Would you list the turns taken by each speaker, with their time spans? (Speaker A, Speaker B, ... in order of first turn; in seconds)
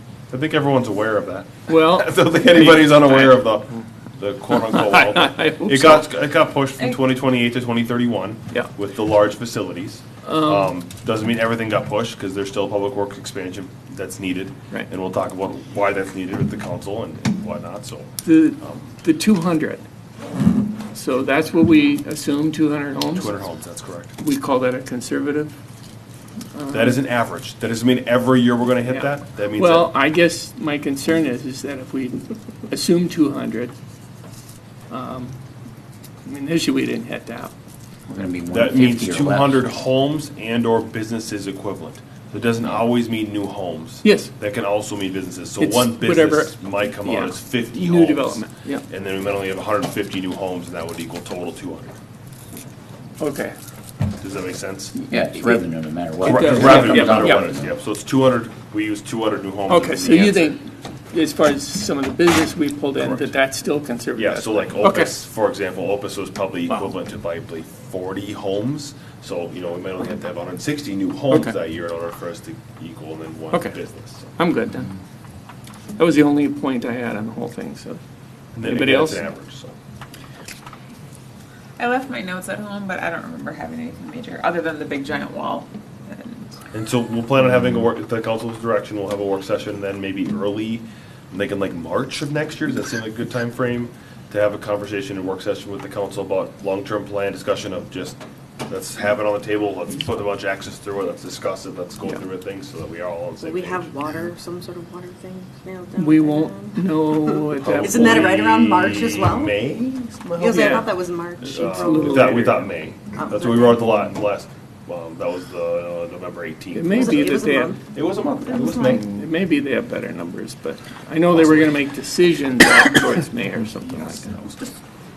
Speaker A: 0.3-18.9, 23.1-24.1, 26.7-29.9, 38.5-52.0, 54.2-55.0, 56.2-60.6, 63.0-63.3, 64.2-74.4, 78.5-79.8, 86.7-104.0, 107.6-110.8, 111.4-117.3, 117.9-119.1, 121.3-121.8, 123.8-124.7
Speaker B: 1.7-3.5, 4.6-6.1, 10.2-10.7, 18.2-19.8, 20.9-23.3, 24.2-25.6, 26.6-27.0, 28.9-33.7, 34.9-35.4, 36.2-37.5, 44.0-44.3, 45.6-48.8, 53.2-53.5, 56.2-57.5, 59.7-65.1, 71.3-71.6, 73.5-73.8, 74.4-74.9, 76.0-78.0, 78.6-79.2, 106.0-108.3, 110.5-112.7, 116.7-117.8, 118.8-124.3
Speaker C: 38.1-39.7, 55.1-57.7
Speaker D: 81.8-86.5
Speaker E: 103.4-109.6, 110.4-112.6, 113.2-114.0, 116.9-117.8